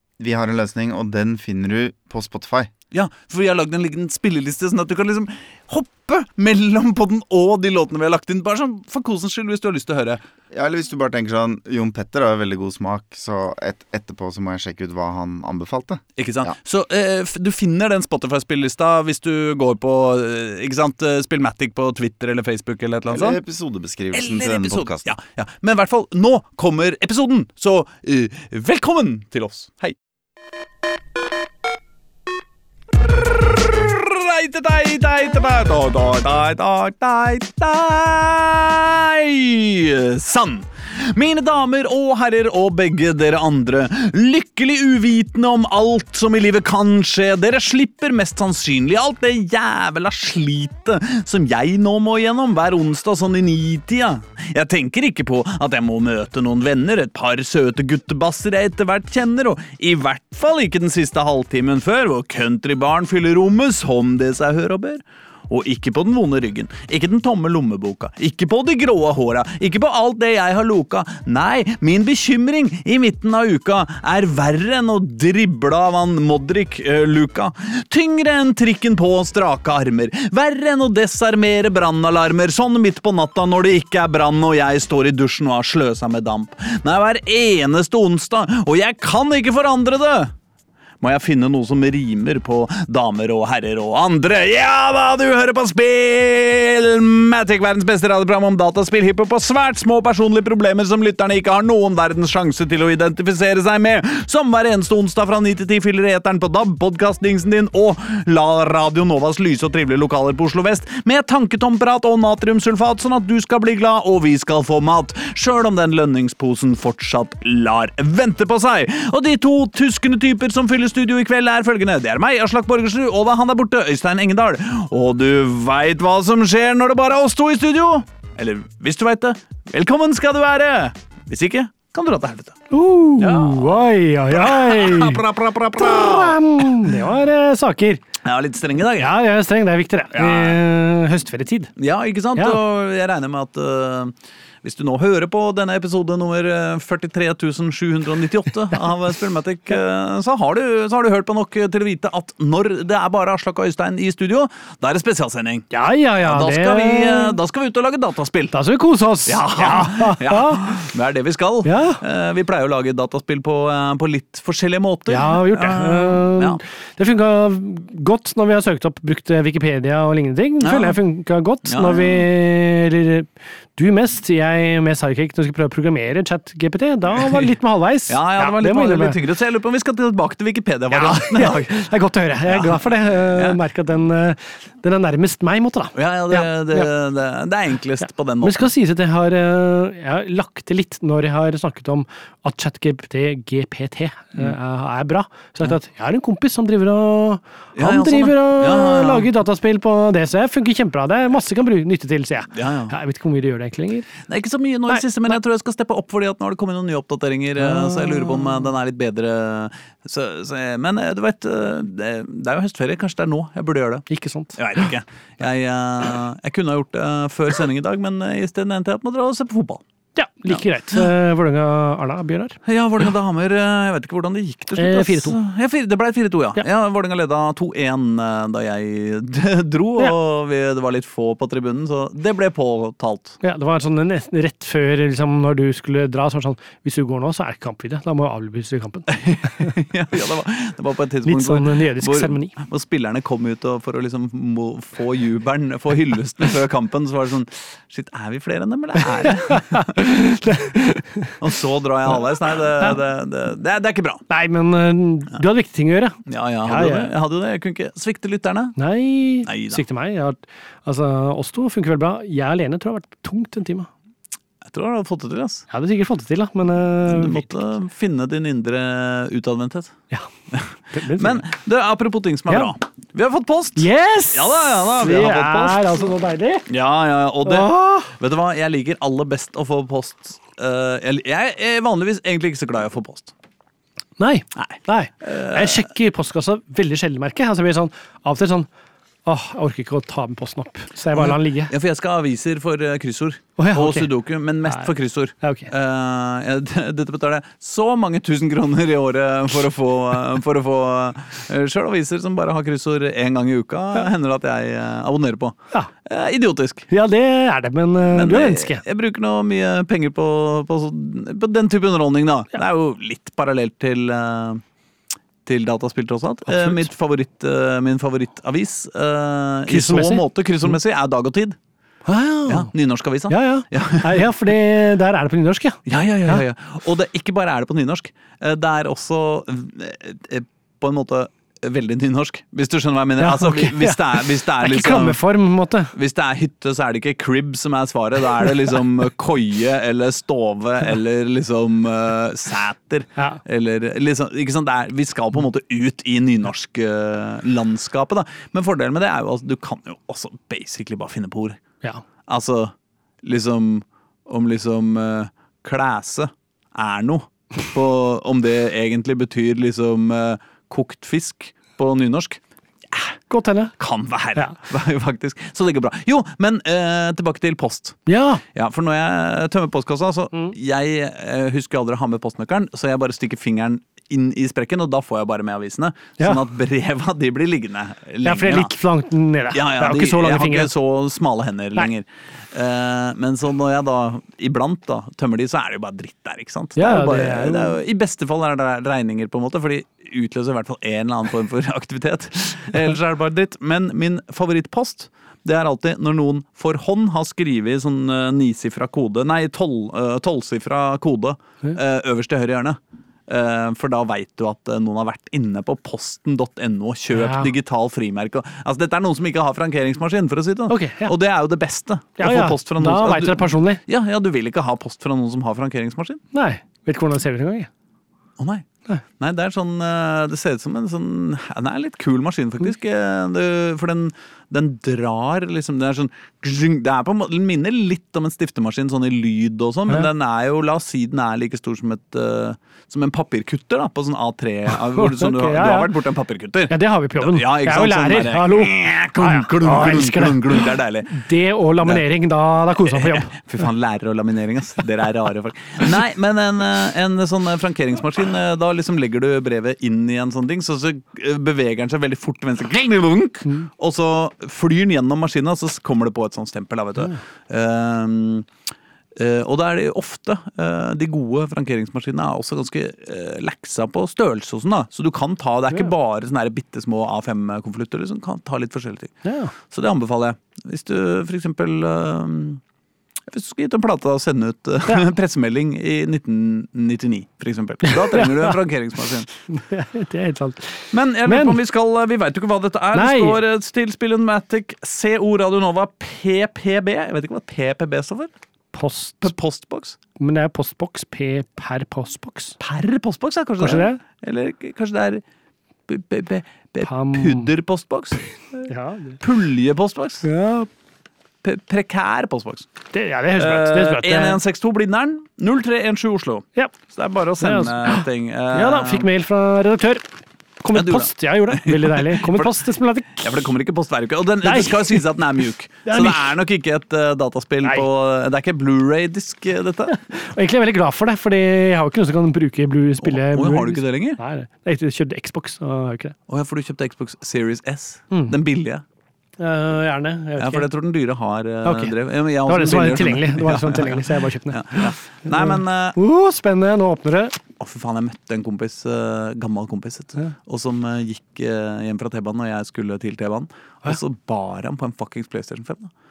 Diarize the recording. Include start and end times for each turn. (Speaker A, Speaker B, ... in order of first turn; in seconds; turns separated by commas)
Speaker A: 0.2-2.7, Speaker B: 2.9-10.2, Speaker A: 10.5-16.5, Speaker B: 16.2-23.4, Speaker A: 23.1-25.1, Speaker B: 24.1-29.9, Speaker B: 33.7-90.3, Speaker B: 91.0-132.6, Speaker C: 132.7-135.2, Speaker B: 133.2-136.7, Speaker C: 135.8-138.0, Speaker B: 138.2-139.1, Speaker C: 139.0-141.7, Speaker B: 140.1-140.6, Speaker B: 141.8-155.7, Speaker C: 155.7-157.4, Speaker B: 156.2-158.5, Speaker C: 158.5-160.9, Speaker B: 159.2-166.6, Speaker C: 161.6-162.0, Speaker C: 165.1-179.2, Speaker B: 170.6-171.0, Speaker B: 171.6-172.3, Speaker B: 177.2-177.5, Speaker B: 178.1-181.7, Speaker C: 180.9-186.9, Speaker B: 182.5-183.6, Speaker B: 185.9-188.7, Speaker C: 188.4-204.1, Speaker B: 197.8-199.3, Speaker B: 202.5-202.9, Speaker B: 204.3-219.8, Speaker C: 207.6-208.7, Speaker C: 214.1-214.6, Speaker C: 220.2-222.6, Speaker B: 220.5-221.1, Speaker B: 222.6-233.4, Speaker C: 224.8-225.4, Speaker C: 233.4-239.7, Speaker B: 239.1-250.0, Speaker C: 241.2-242.5, Speaker C: 249.2-251.3, Speaker B: 251.4-254.2, Speaker C: 254.3-257.1, Speaker B: 256.3-258.8, Speaker C: 258.8-263.9, Speaker B: 259.4-259.8, Speaker B: 264.6-265.6, Speaker C: 265.7-267.6, Speaker B: 267.1-269.9, Speaker B: 270.5-276.0, Speaker C: 270.9-271.4, Speaker C: 273.8-276.7, Speaker B: 276.7-283.3, Speaker C: 277.4-277.8, Speaker C: 284.2-288.7, Speaker B: 284.6-285.9, Speaker C: 289.2-291.7, Speaker B: 291.1-306.9, Speaker C: 293.6-294.1, Speaker C: 294.6-295.7, Speaker C: 306.9-308.8, Speaker B: 308.1-314.6, Speaker B: 315.4-321.6, Speaker C: 316.5-316.8, Speaker C: 319.7-320.7, Speaker C: 322.0-322.7, Speaker B: 322.5-324.3, Speaker C: 323.3-326.4, Speaker B: 325.9-335.2, Speaker C: 333.2-335.9, Speaker B: 335.9-351.6, Speaker B: 352.3-363.1, Speaker C: 363.3-363.7, Speaker B: 363.8-368.0, Speaker C: 368.1-368.4, Speaker B: 368.5-378.7, Speaker C: 378.2-380.7, Speaker B: 379.5-416.2, Speaker C: 386.8-387.8, Speaker C: 407.1-407.5, Speaker C: 410.7-411.1, Speaker C: 412.2-413.8, Speaker C: 416.3-417.7, Speaker B: 418.4-418.6, Speaker B: 419.2-441.2, Speaker C: 434.7-435.9, Speaker C: 436.7-443.3, Speaker B: 442.8-458.5, Speaker B: 459.1-469.1, Speaker C: 469.2-469.5, Speaker B: 469.7-472.6, Speaker B: 473.3-479.3, Speaker C: 477.8-478.6, Speaker C: 479.5-481.6, Speaker B: 480.9-488.3, Speaker C: 482.9-483.4, Speaker C: 488.7-489.3, Speaker B: 489.2-490.0, Speaker C: 490.2-492.6, Speaker B: 492.6-495.2, Speaker C: 493.6-494.0, Speaker B: 495.9-498.2, Speaker C: 496.8-497.5, Speaker C: 498.6-499.2, Speaker B: 499.2-500.2, Speaker C: 500.2-500.7, Speaker B: 501.4-502.7, Speaker C: 502.9-504.4, Speaker B: 503.4-509.1, Speaker C: 507.4-510.1, Speaker C: 510.6-513.4, Speaker B: 510.7-512.6, Speaker B: 513.2-520.0, Speaker C: 514.4-515.1, Speaker C: 515.9-516.3, Speaker C: 519.9-526.1, Speaker B: 523.0-524.2, Speaker B: 526.3-528.8, Speaker C: 529.4-530.7, Speaker B: 530.4-536.0, Speaker C: 531.6-531.9, Speaker C: 532.5-537.4, Speaker B: 537.6-545.9